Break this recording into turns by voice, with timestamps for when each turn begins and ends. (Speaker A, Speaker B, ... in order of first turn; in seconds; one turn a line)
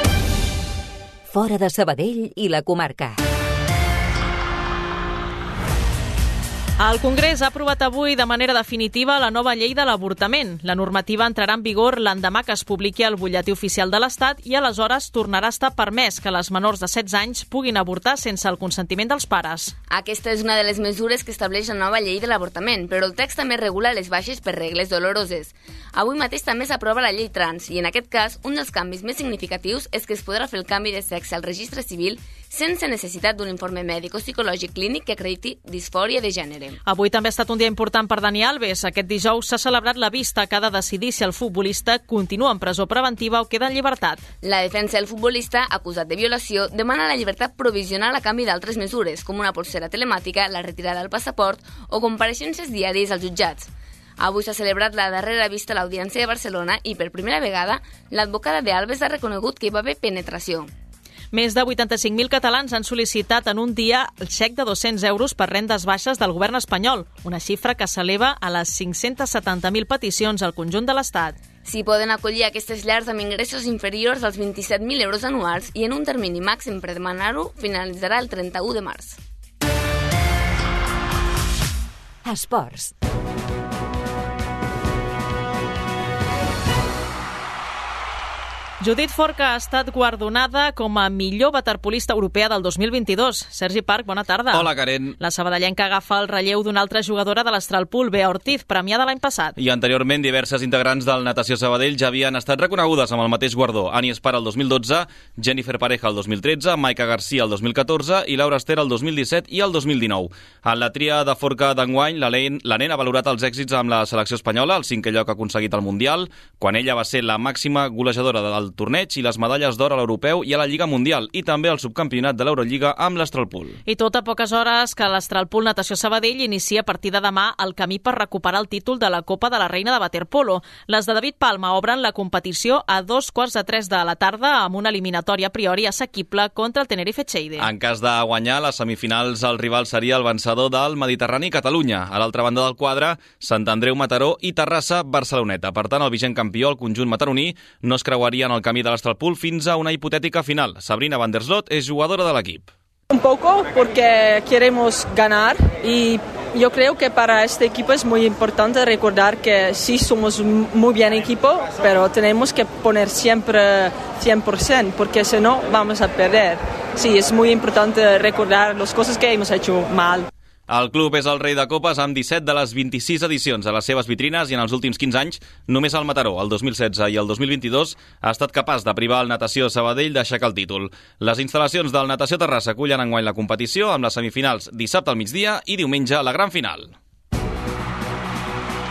Speaker A: 1.3-3.2
Speaker B: 6.8-19.7
Speaker C: 19.9-36.8
Speaker B: 36.9-44.2
Speaker C: 44.4-60.7
Speaker B: 61.3-71.3
Speaker C: 71.6-79.2
Speaker A: 82.2-82.9
Speaker B: 88.8-99.5
Speaker D: 94.5-95.2
Speaker D: 99.6-123.8
Speaker B: 123.9-137.7
Speaker D: 137.6-152.7
Speaker E: 153.1-170.3
Speaker D: 170.7-186.9